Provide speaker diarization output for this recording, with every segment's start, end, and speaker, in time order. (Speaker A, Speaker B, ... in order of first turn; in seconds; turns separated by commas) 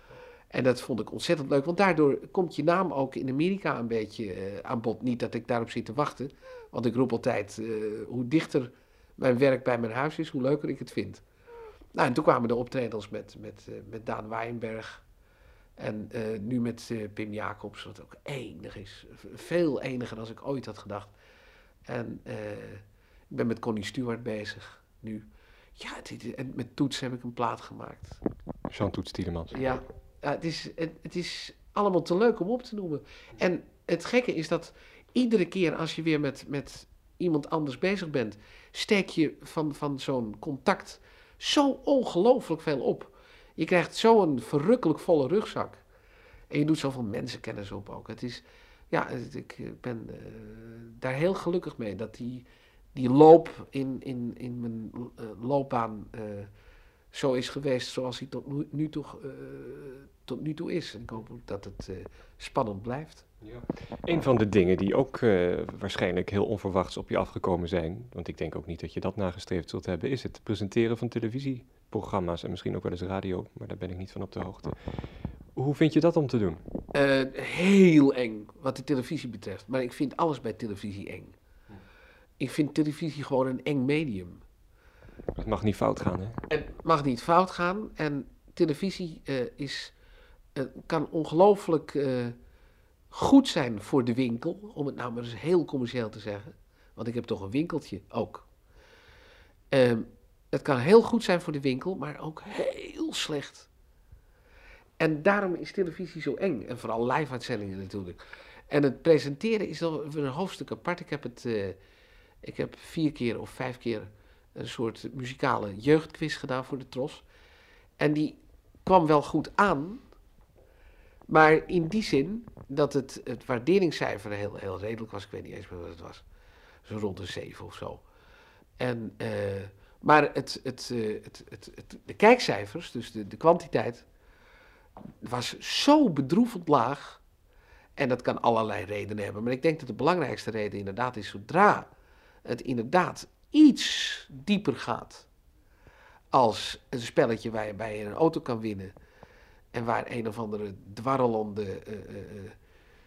Speaker A: 0.5-11.2, Speaker A: 11.9-15.0, Speaker A: 15.8-21.1, Speaker A: 21.9-25.2, Speaker A: 25.8-28.2, Speaker B: 28.7-29.7, Speaker A: 29.5-45.8, Speaker A: 46.5-56.5, Speaker A: 57.1-63.3, Speaker B: 63.4-74.8, Speaker B: 75.5-76.6, Speaker A: 76.9-81.4, Speaker A: 82.4-84.4, Speaker B: 85.3-86.4, Speaker A: 86.5-89.9, Speaker A: 90.5-92.3, Speaker A: 93.1-98.5, Speaker A: 99.7-103.7, Speaker A: 105.0-108.2, Speaker A: 108.7-111.8, Speaker A: 112.4-117.2, Speaker A: 118.0-120.0, Speaker A: 121.3-126.2, Speaker A: 126.8-128.0, Speaker A: 128.8-134.1, Speaker A: 135.2-137.2, Speaker A: 138.0-141.9, Speaker A: 142.4-145.3, Speaker A: 146.3-148.9, Speaker A: 149.7-152.6